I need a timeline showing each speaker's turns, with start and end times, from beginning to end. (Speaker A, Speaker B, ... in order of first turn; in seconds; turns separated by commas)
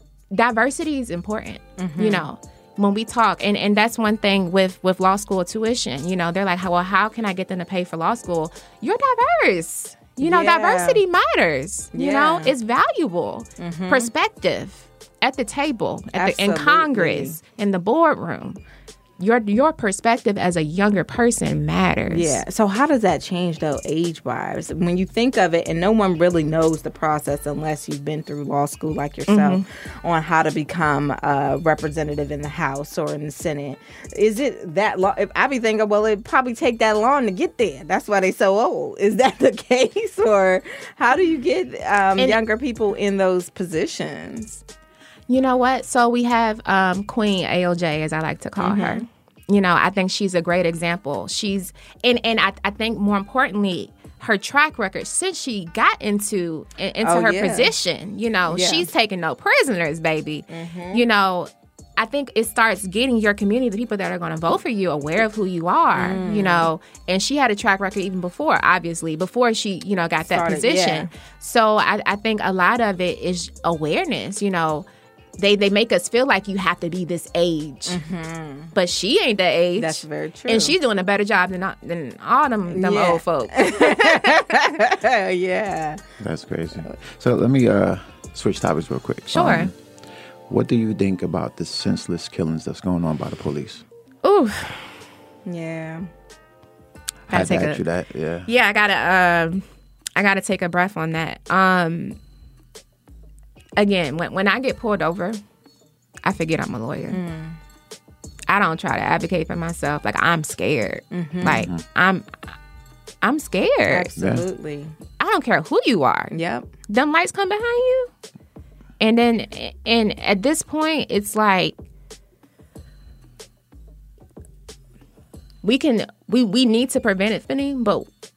Speaker A: 0.3-18.6, Speaker B: 1.8-2.3, Speaker B: 10.2-11.0, Speaker B: 11.9-12.5, Speaker B: 13.6-14.1, Speaker B: 16.1-17.4, Speaker A: 19.2-22.4, Speaker B: 22.1-44.6, Speaker A: 29.3-29.6, Speaker A: 45.3-74.8, Speaker B: 48.6-49.0, Speaker B: 57.0-57.7, Speaker B: 58.5-58.9, Speaker B: 60.5-61.0, Speaker B: 65.9-66.7, Speaker B: 70.3-71.1, Speaker A: 75.4-78.0, Speaker B: 77.9-78.7, Speaker A: 78.7-84.6, Speaker B: 79.8-80.7, Speaker B: 82.7-86.0, Speaker C: 86.2-89.7, Speaker A: 89.3-89.7, Speaker C: 90.5-93.8, Speaker A: 94.2-94.9, Speaker B: 95.5-96.1, Speaker C: 97.3-98.5, Speaker A: 97.3-97.8, Speaker A: 98.5-102.2, Speaker A: 103.8-105.4, Speaker A: 106.2-107.2, Speaker B: 107.1-107.6, Speaker A: 108.5-112.3, Speaker B: 111.1-111.6, Speaker C: 111.4-111.8, Speaker A: 113.2-114.1, Speaker B: 113.9-114.9, Speaker C: 114.2-114.4, Speaker A: 115.2-116.3, Speaker B: 116.3-116.7, Speaker A: 116.9-118.1, Speaker A: 119.0-121.8, Speaker A: 125.6-128.1